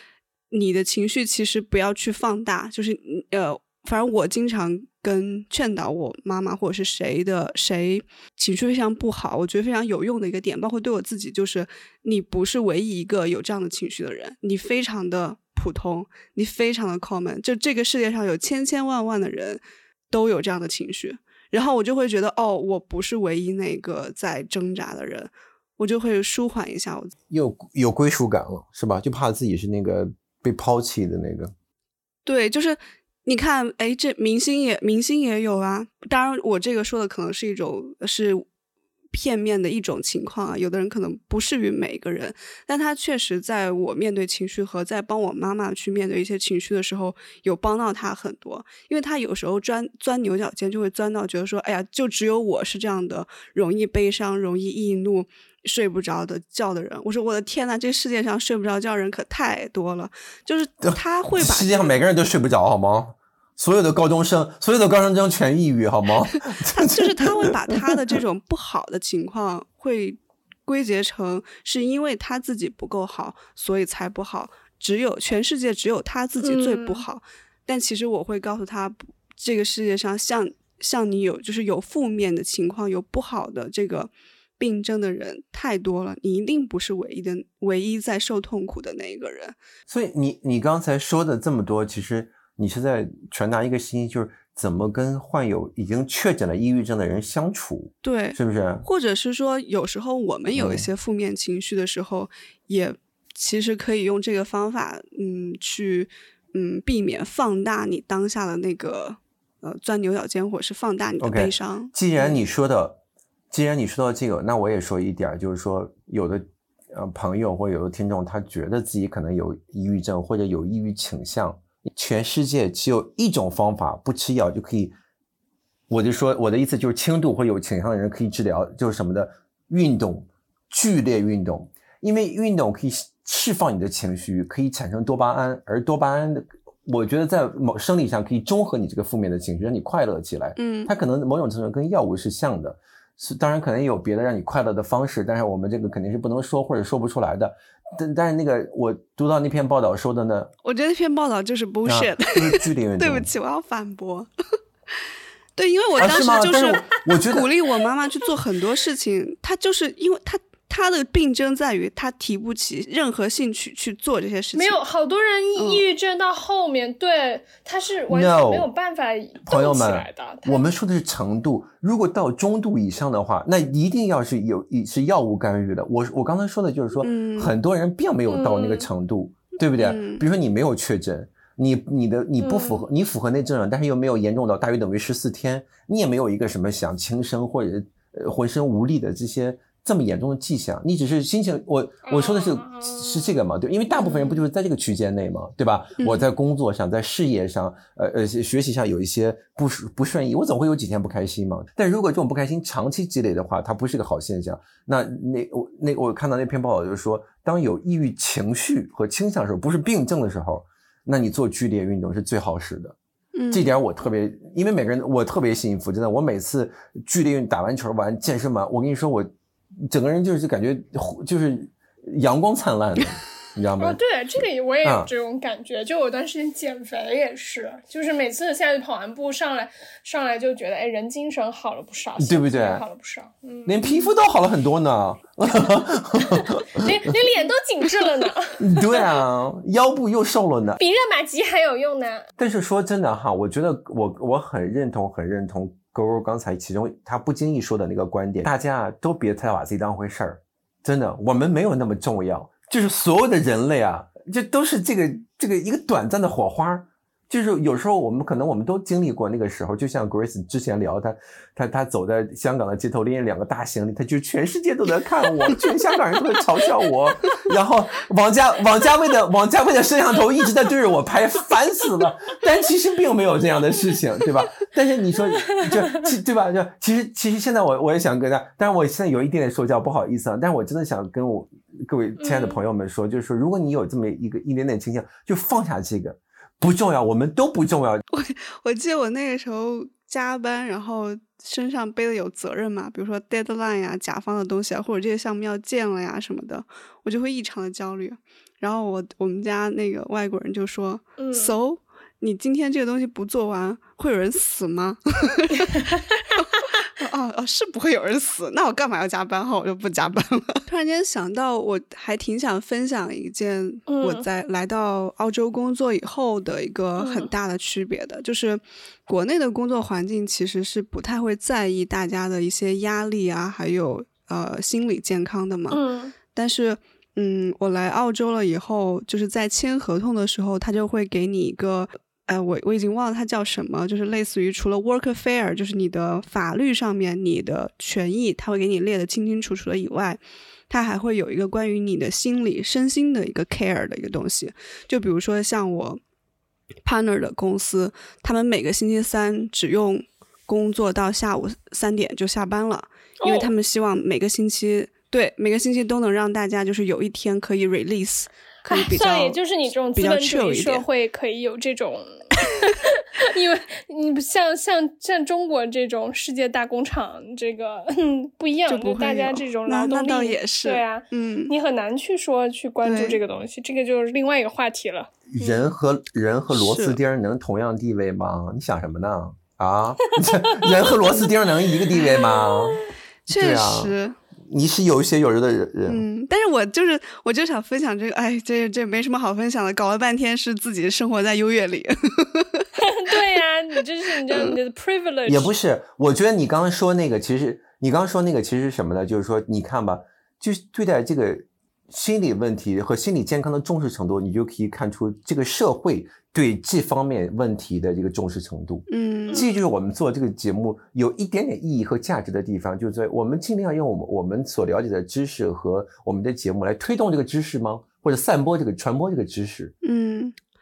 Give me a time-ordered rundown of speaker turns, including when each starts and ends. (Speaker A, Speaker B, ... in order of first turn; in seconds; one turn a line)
Speaker A: 0.5-27.1
Speaker B: 27.3-31.5
Speaker A: 32.3-38.5
Speaker A: 39.1-62.0
Speaker B: 60.9-68.1
Speaker A: 66.7-89.6
Speaker C: 76.4-77.0
Speaker B: 89.9-98.8
Speaker A: 98.0-112.4
Speaker B: 100.5-100.9
Speaker B: 111.2-113.0
Speaker B: 113.5-125.0
Speaker B: 125.9-150.5
Speaker A: 140.6-140.9
Speaker A: 150.6-154.3
Speaker B: 151.8-153.3
Speaker A: 155.6-164.8
Speaker B: 156.0-157.5
Speaker C: 164.6-170.6
Speaker A: 165.6-165.8
Speaker B: 168.1-168.7
Speaker B: 169.4-213.0
Speaker A: 177.0-177.5
Speaker C: 178.3-178.9
Speaker A: 179.8-180.2
Speaker C: 182.4-182.8
Speaker C: 192.1-193.4
Speaker C: 194.0-194.4
Speaker A: 196.0-196.3
Speaker A: 213.3-213.7
Speaker B: 213.5-219.3
Speaker B: 219.8-224.0
Speaker C: 223.8-234.1
Speaker B: 224.8-225.1
Speaker B: 232.2-232.8
Speaker B: 233.7-236.9
Speaker C: 236.2-239.1
Speaker B: 238.6-240.8
Speaker C: 240.8-242.3
Speaker B: 242.4-288.0
Speaker C: 275.5-276.0
Speaker C: 282.2-282.6
Speaker A: 288.1-325.8
Speaker C: 301.2-301.6
Speaker C: 305.6-306.7
Speaker C: 313.9-314.2
Speaker C: 317.0-317.3
Speaker C: 325.7-326.1
Speaker A: 326.3-340.2
Speaker A: 340.7-346.0
Speaker A: 346.9-360.9
Speaker C: 353.2-353.5
Speaker C: 358.7-375.7
Speaker A: 368.7-371.5
Speaker A: 372.8-373.2
Speaker B: 375.3-383.9
Speaker A: 376.5-377.0
Speaker C: 382.0-382.9
Speaker A: 383.3-384.2
Speaker B: 384.4-386.0
Speaker A: 385.9-392.7
Speaker C: 392.8-395.5
Speaker A: 394.3-394.5
Speaker B: 395.3-419.7
Speaker A: 408.9-409.4
Speaker C: 409.3-409.6
Speaker A: 419.8-420.4